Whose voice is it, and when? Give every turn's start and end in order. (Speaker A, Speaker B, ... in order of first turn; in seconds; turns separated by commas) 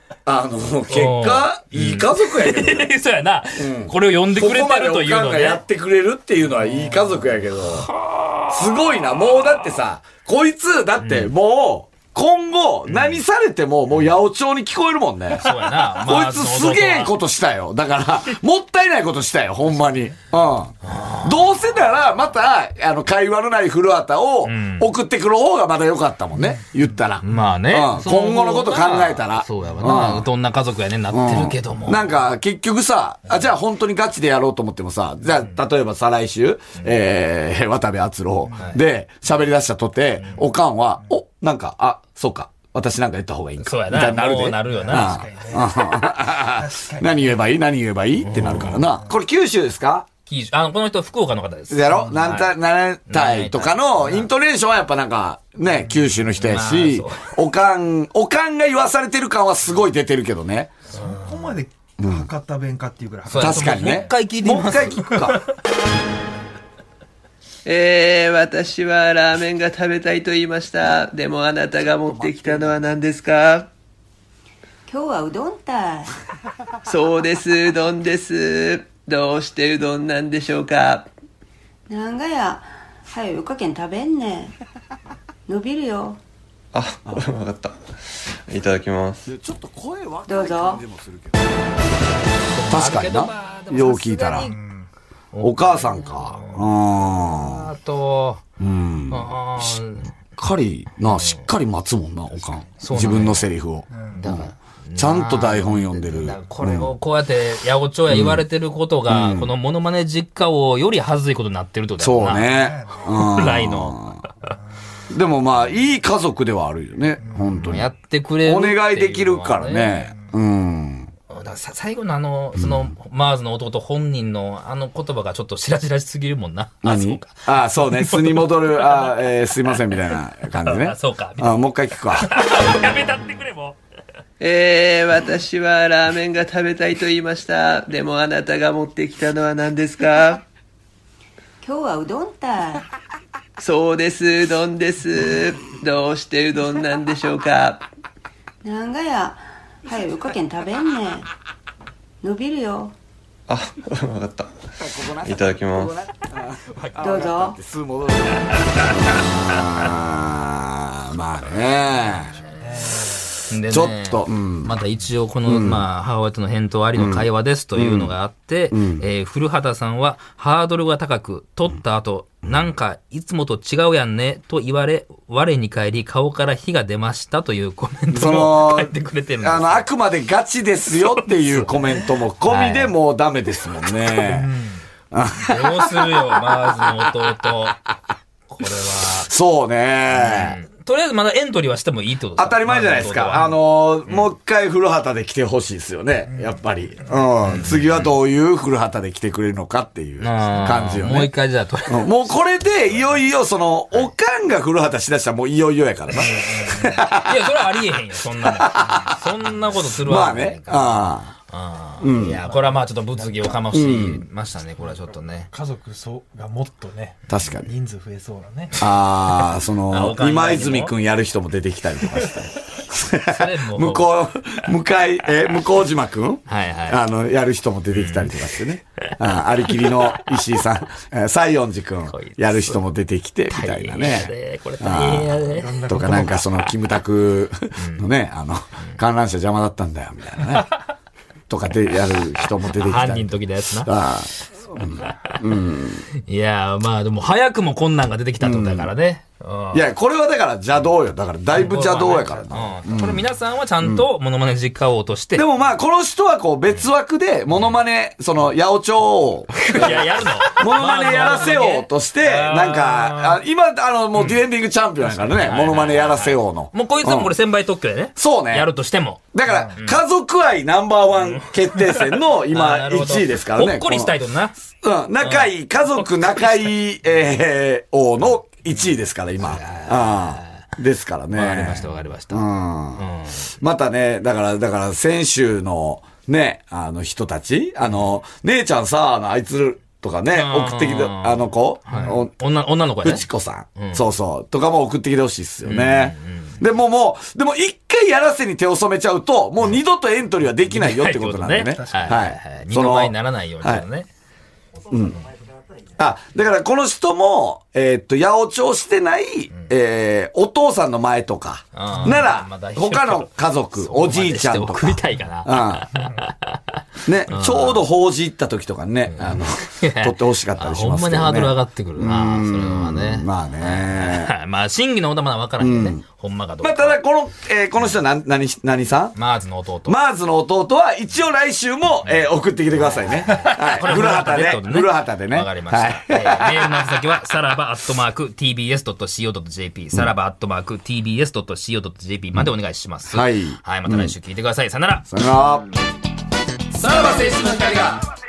Speaker A: 0.2-2.9, Speaker B: 0.9-5.6, Speaker A: 3.6-7.9, Speaker B: 8.0-8.5, Speaker A: 8.5-30.3, Speaker B: 11.0-11.3, Speaker B: 12.9-13.2, Speaker B: 15.3-17.1, Speaker B: 20.8-21.5, Speaker B: 24.4-24.9, Speaker B: 27.2-32.0, Speaker A: 31.1-50.1, Speaker B: 43.6-45.3, Speaker C: 44.7-45.7, Speaker C: 46.4-47.3, Speaker B: 48.2-48.9, Speaker B: 50.2-52.5, Speaker A: 51.7-60.7, Speaker B: 53.1-54.3, Speaker B: 56.4-57.3, Speaker C: 60.9-64.8, Speaker B: 60.9-61.5, Speaker A: 62.0-62.3, Speaker B: 63.3-65.4, Speaker A: 63.4-65.4, Speaker D: 67.7-73.7, Speaker A: 71.8-72.8, Speaker E: 74.9-76.2, Speaker D: 76.8-81.1, Speaker E: 81.9-84.5, Speaker E: 85.5-86.2, Speaker F: 86.7-87.8, Speaker F: 88.5-89.3, Speaker A: 89.3-91.5, Speaker E: 90.3-90.8, Speaker B: 92.5-94.6, Speaker A: 92.7-94.5, Speaker B: 95.3-98.4, Speaker A: 95.4-97.7, Speaker A: 98.6-99.7, Speaker B: 99.1-100.1, Speaker A: 100.4-106.9, Speaker B: 101.1-101.5, Speaker B: 102.8-103.5, Speaker B: 104.1-112.5, Speaker A: 108.1-108.4, Speaker A: 109.1-109.5, Speaker A: 112.0-114.2, Speaker C: 112.6-113.0, Speaker B: 113.0-114.2, Speaker A: 115.1-117.9, Speaker B: 117.6-120.1, Speaker A: 118.4-121.1, Speaker B: 121.3-130.0, Speaker A: 126.8-132.3, Speaker B: 130.5-133.8, Speaker D: 134.4-140.4, Speaker E: 141.6-142.9, Speaker D: 143.6-147.8, Speaker E: 148.6-151.3, Speaker E: 152.2-152.9, Speaker F: 153.5-154.5, Speaker A: 154.8-162.4, Speaker F: 155.2-155.9, Speaker E: 157.0-157.6, Speaker C: 162.6-163.0, Speaker B: 163.5-179.9, Speaker A: 163.7-164.8, Speaker A: 165.4-165.8, Speaker A: 167.0-168.2, Speaker A: 168.7-169.0, Speaker A: 178.1-184.5, Speaker B: 181.2-181.7, Speaker B: 182.4-182.9, Speaker A: 185.1-187.5, Speaker B: 185.4-187.8, Speaker B: 188.5-189.3, Speaker A: 189.0-190.6, Speaker B: 190.1-194.3, Speaker A: 192.4-201.3, Speaker B: 197.4-198.1, Speaker B: 200.2-202.2, Speaker A: 201.9-207.6, Speaker B: 206.1-215.5, Speaker A: 208.4-209.2, Speaker A: 209.9-211.3, Speaker A: 212.0-212.4, Speaker A: 213.7-214.2, Speaker C: 215.5-218.8, Speaker A: 217.3-217.7, Speaker A: 218.8-240.8, Speaker B: 219.9-220.9, Speaker B: 223.3-224.1, Speaker B: 226.5-227.0, Speaker B: 227.9-230.4, Speaker B: 232.1-232.8, Speaker B: 233.5-236.1, Speaker C: 235.4-236.4, Speaker B: 237.8-238.1, Speaker A: 241.5-246.1, Speaker B: 242.7-243.9, Speaker B: 245.0-245.3, Speaker B: 246.2-249.8, Speaker A: 248.4-248.9, Speaker A: 249.7-253.2, Speaker B: 251.5-255.4, Speaker A: 255.3-267.3, Speaker B: 259.6-263.4, Speaker B: 264.1-264.4, Speaker B: 265.1-270.0, Speaker A: 268.1-268.7, Speaker A: 269.3-274.2, Speaker B: 271.1-274.6, Speaker A: 274.7-283.1, Speaker B: 275.2-276.6, Speaker B: 279.4-280.6, Speaker B: 281.3-283.5, Speaker A: 283.6-292.3, Speaker B: 290.3-293.2, Speaker A: 293.0-303.8, Speaker B: 293.8-294.0, Speaker B: 295.6-296.6, Speaker B: 300.7-304.1, Speaker C: 301.8-302.1, Speaker A: 304.9-305.3, Speaker A: 306.0-315.9, Speaker B: 311.7-316.6, Speaker A: 317.0-324.3, Speaker B: 317.3-317.8, Speaker B: 319.1-327.0, Speaker A: 325.6-326.0, Speaker A: 326.6-329.1, Speaker B: 329.1-330.0, Speaker A: 329.9-337.0, Speaker B: 332.0-345.1, Speaker A: 343.1-344.1, Speaker A: 345.1-345.7, Speaker A: 346.7-348.0, Speaker B: 346.8-348.0